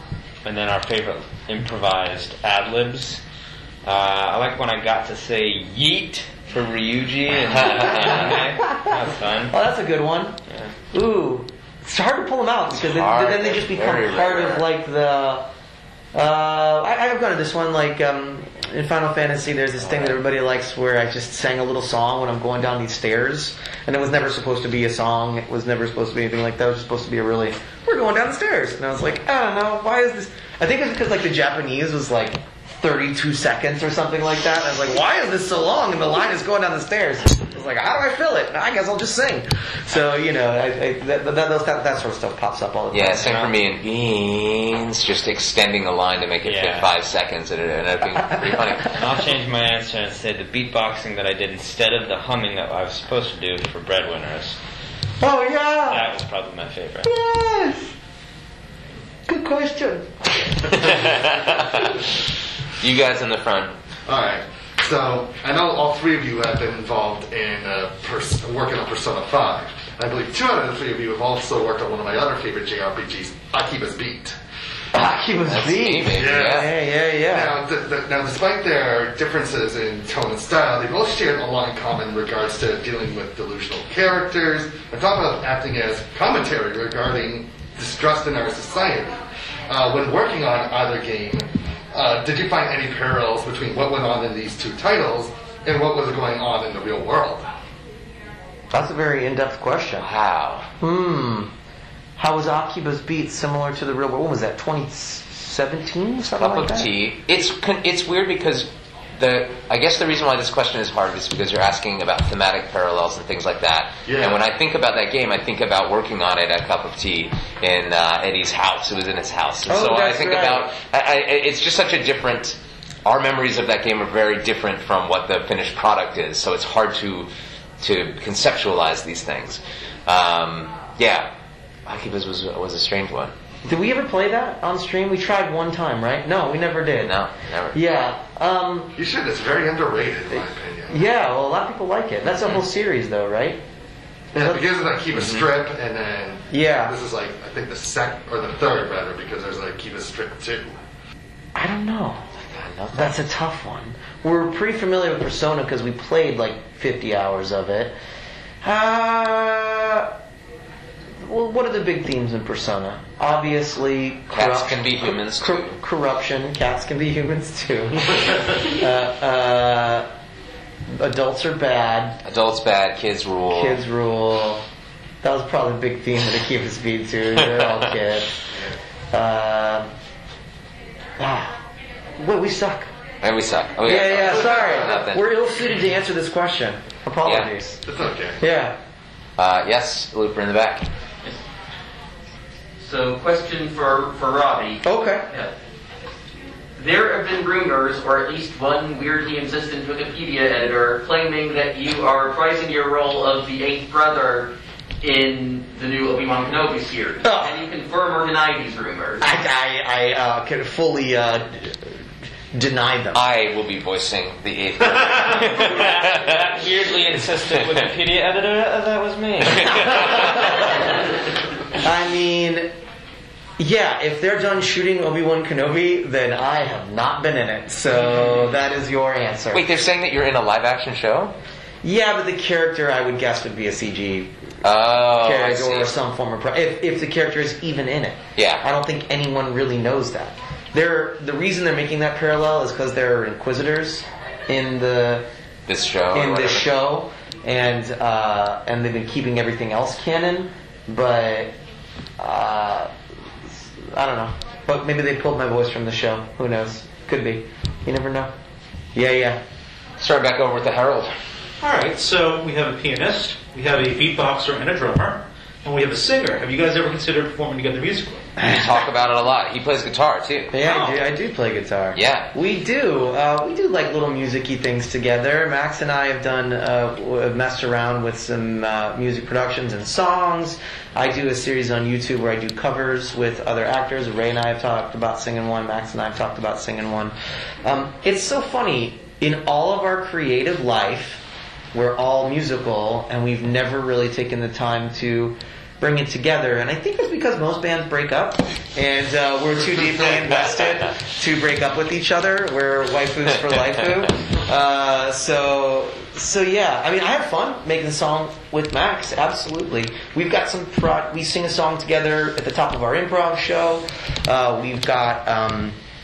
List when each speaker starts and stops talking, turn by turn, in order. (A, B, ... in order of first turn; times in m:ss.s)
0:00.4-0:03.2 A
0:03.8-0:09.5 A
0:07.7-0:08.1 B
0:09.5-0:10.4 C
0:10.9-0:15.5 C
0:12.7-0:14.6 B
0:16.1-0:43.3 C
0:42.9-0:48.9 B
0:43.2-0:43.5 A
0:46.4-0:46.9 A
0:48.9-0:54.6 A
0:55.2-0:56.1 C
0:55.9-0:57.1 A
0:57.0-0:57.9 C
0:59.3-1:00.7 C
1:00.8-1:01.9 B
1:02.8-1:03.7 B
1:04.1-1:14.3 D
1:14.9-1:17.6 C
1:15.4-1:16.7 B
1:16.1-1:16.7 D
1:17.3-1:29.1 D
1:29.7-1:37.5 D
1:38.7-1:40.1 C
1:40.0-1:40.7 B
1:40.8-1:41.5 C
1:42.2-1:46.9 C
1:46.4-1:48.7 B
1:49.2-2:07.3 B
1:54.0-1:54.4 D
1:59.7-2:00.7 C
2:07.8-2:11.3 B
2:11.9-2:13.3 B
2:13.6-2:17.1 C
2:17.0-2:17.8 B
2:17.7-2:18.9 C
2:19.0-2:21.0 D
2:20.9-2:23.6 C
2:24.3-2:30.7 D
2:24.4-2:24.6 C
2:26.5-2:26.9 C
2:31.5-2:32.3 C
2:32.4-2:33.2 B
2:32.9-2:37.9 C
2:38.6-2:40.1 C
2:41.2-2:50.1 C
2:44.3-2:45.8 B
2:50.9-2:52.2 C
2:52.2-2:53.8 B
2:53.5-2:54.6 C
2:55.2-2:58.3 C
2:59.1-2:59.9 C
3:01.2-3:01.6 C
3:02.2-3:02.9 C
3:03.2-3:05.2 B
3:03.8-3:07.8 C
3:07.2-3:07.5 B
3:07.8-3:08.4 D
3:08.4-3:08.8 C
3:09.4-3:10.9 B
3:12.8-3:15.5 E
3:14.8-3:15.3 C
3:16.8-3:29.2 E
3:27.2-3:27.6 C
3:29.2-3:31.9 C
3:32.5-3:33.2 C
3:33.1-3:36.5 B
3:35.4-3:40.3 A
3:39.6-3:40.5 B
3:41.8-3:42.7 C
3:43.6-3:49.6 C
3:49.5-3:51.3 B
3:51.8-3:54.3 C
3:54.6-3:55.9 B
3:55.1-4:05.3 C
3:58.4-3:58.6 B
4:05.7-4:06.7 B
4:06.1-4:11.5 C
4:12.2-4:12.9 C
4:13.8-4:18.3 C
4:18.9-4:19.4 C
4:20.0-4:21.1 B
4:21.6-4:28.3 F
4:28.4-4:30.9 B
4:30.5-4:51.2 C
4:31.9-4:32.3 B
4:51.7-5:15.8 C